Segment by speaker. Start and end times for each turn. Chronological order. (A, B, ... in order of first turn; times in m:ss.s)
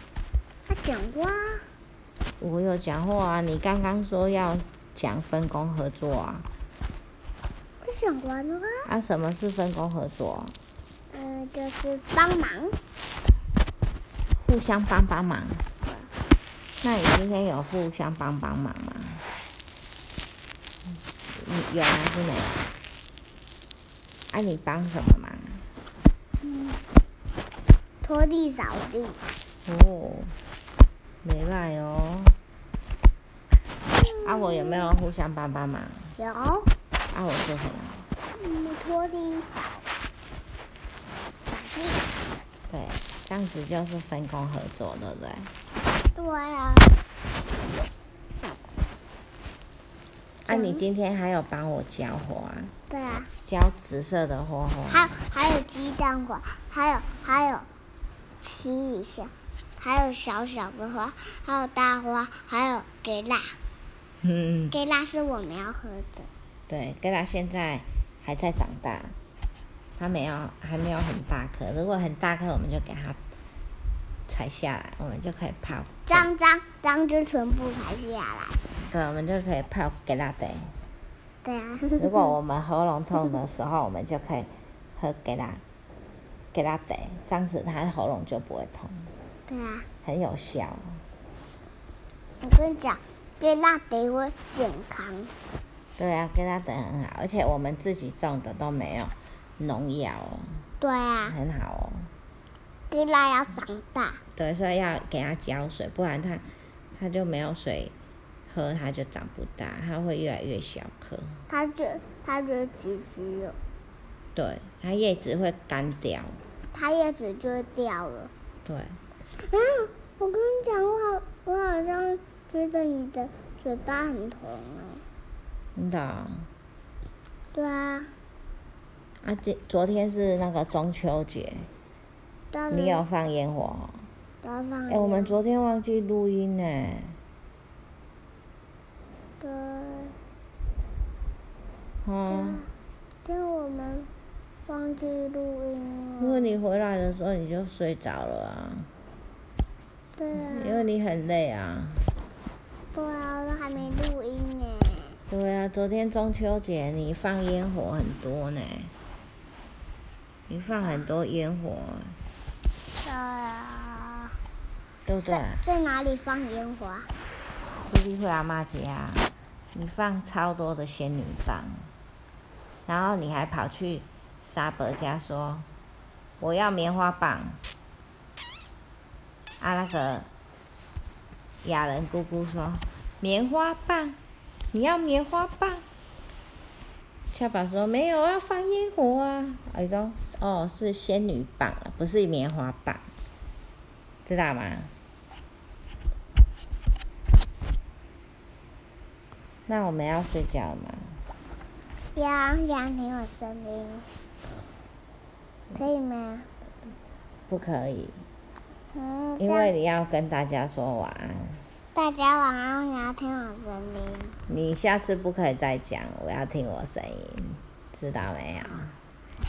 0:00.6-0:01.6 A
0:02.4-0:06.5 B
0:07.8-0:08.9 A
0:08.8-0:10.5 B
0:11.1-0:12.8 A
0:14.4-0:15.6 B
0:16.8-0:19.2 B
0:21.3-0:22.7 B
0:24.3-0:25.6 B
0:26.4-0:26.8 A
0:28.0-0:29.2 A
0:29.6-0:30.3 B
0:31.2-0:32.3 B
0:33.9-0:34.9 A
0:34.2-0:36.1 B
0:36.2-0:36.7 A
0:37.1-0:38.0 B
0:38.3-0:39.8 A
0:41.4-0:42.0 A
0:42.7-0:45.5 B
0:46.2-0:46.9 A
0:50.4-0:52.7 B
0:50.5-0:50.8 A
0:52.9-0:53.3 A
0:53.4-0:55.1 B
0:54.9-0:57.6 A
0:58.4-1:03.5 A
1:04.2-1:04.7 B
1:04.7-1:06.3 A
1:06.7-1:09.1 B
1:10.0-1:13.2 B
1:14.3-1:16.3 B
1:16.1-1:18.6 A
1:18.9-1:20.7 B
1:21.4-1:22.3 A
1:22.0-1:25.6 B
1:26.5-1:29.1 B
1:29.5-1:29.8 A
1:30.0-1:31.0 B
1:32.4-1:35.3 A
1:36.0-1:40.5 B
1:40.8-1:41.4 A
1:41.2-1:42.1 B
1:42.9-1:44.2 A
1:44.4-1:46.4 B
1:47.0-1:47.9 B
1:48.5-1:51.4 B
1:51.5-1:53.6 A
1:54.3-1:56.4 B
1:56.7-1:58.3 A
1:58.6-1:59.0 B
1:59.4-2:05.0 A
2:05.7-2:06.4 B
2:07.5-2:08.1 A
2:09.2-2:11.7 B
2:12.5-2:13.0 A
2:12.7-2:14.0 B
2:14.4-2:15.4 A
2:14.9-2:17.2 B
2:19.4-2:20.2 A
2:22.0-2:22.6 B
2:22.3-2:22.7 A
2:23.2-2:24.1 A
2:24.7-2:26.5 A
2:26.2-2:28.9 B
2:30.2-2:30.9 A
2:30.3-2:32.1 B
2:32.9-2:35.2 A
2:35.3-2:38.9 B
2:40.5-2:42.2 B
2:40.8-2:41.0 A
2:42.9-2:44.3 A
2:45.0-2:45.6 B
2:45.2-2:47.1 A
2:47.8-2:51.8 B
2:52.9-2:55.7 B
2:56.4-2:57.6 B
2:59.6-3:00.3 B
3:01.6-3:04.2 B
3:04.7-3:05.8 B
3:07.3-3:13.0 B
3:14.2-3:14.9 B
3:19.7-3:21.1 B
3:22.1-3:24.1 A
3:25.7-3:26.5 A
3:27.5-3:28.2 B
3:28.9-3:29.7 A
3:29.4-3:31.6 B
3:31.9-3:34.4 A
3:34.5-3:38.9 B